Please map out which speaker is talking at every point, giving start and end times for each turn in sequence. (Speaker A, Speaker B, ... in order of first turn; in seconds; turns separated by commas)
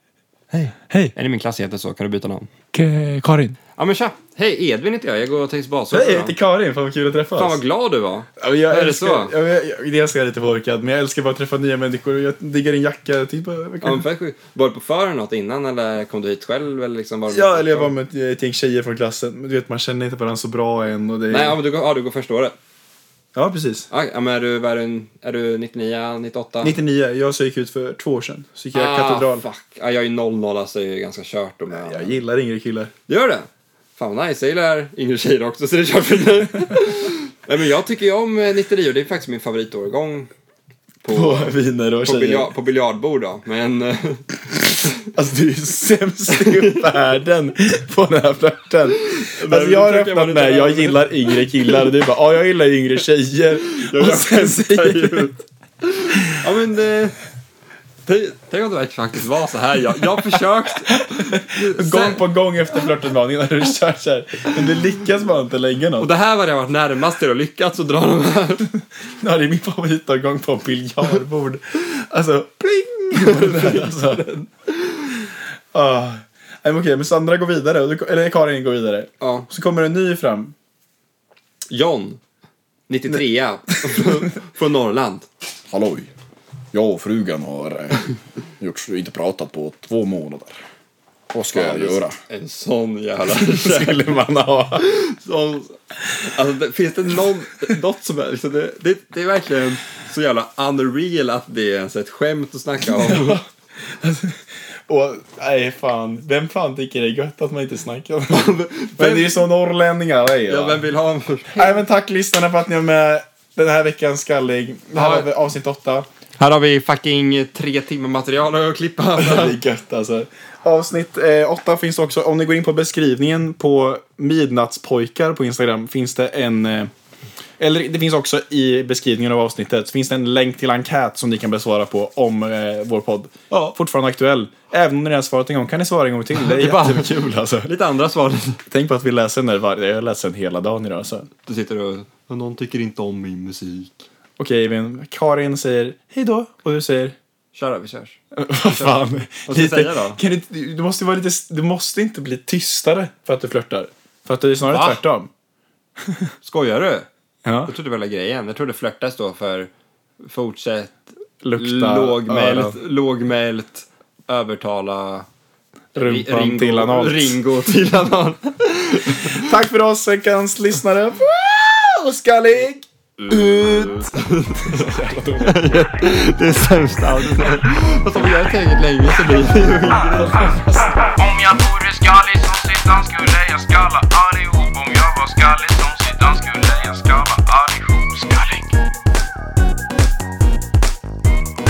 Speaker A: 0.5-2.5, Speaker B: 0.9-1.1, Speaker B: 2.7-3.6, Speaker A: 3.8-6.3, Speaker B: 5.9-7.6, Speaker A: 7.3-9.3, Speaker B: 8.4-14.0, Speaker A: 13.8-17.9, Speaker B: 17.3-21.6, Speaker A: 21.3-22.5, Speaker B: 23.3-23.9, Speaker A: 23.9-26.8, Speaker B: 26.6-29.4, Speaker A: 28.7-32.1, Speaker B: 31.7-32.9, Speaker A: 33.1-40.3, Speaker A: 41.0-44.3, Speaker B: 41.1-42.5, Speaker B: 45.1-55.4, Speaker A: 46.3-46.8, Speaker A: 49.2-51.9, Speaker A: 53.8-57.2, Speaker A: 58.0-62.2, Speaker B: 60.9-66.1, Speaker A: 66.0-68.7, Speaker B: 69.2-74.5, Speaker A: 73.1-75.0, Speaker B: 75.7-80.5, Speaker A: 79.2-79.5, Speaker A: 81.7-82.2, Speaker A: 82.9-85.3, Speaker B: 85.7-86.1, Speaker B: 86.7-90.6, Speaker B: 91.3-92.2, Speaker A: 91.5-94.0, Speaker B: 93.3-94.8, Speaker A: 94.8-103.4, Speaker B: 102.9-110.8, Speaker A: 108.3-109.5, Speaker A: 110.5-111.8, Speaker B: 111.5-116.0, Speaker A: 114.9-115.3, Speaker A: 116.4-119.6, Speaker B: 119.2-126.9, Speaker B: 127.6-137.7, Speaker A: 136.3-138.6, Speaker B: 138.7-141.3, Speaker A: 141.4-144.0, Speaker B: 144.4-147.1, Speaker A: 147.5-150.2, Speaker B: 148.3-155.3, Speaker A: 154.7-155.0, Speaker A: 156.4-157.1, Speaker B: 157.4-157.7, Speaker A: 157.7-161.0, Speaker B: 161.4-162.8, Speaker A: 161.5-165.2, Speaker B: 165.9-167.4, Speaker A: 165.9-169.5, Speaker B: 169.3-175.7, Speaker A: 173.2-180.6, Speaker B: 180.2-180.9, Speaker C: 181.6-188.6, Speaker A: 181.7-182.8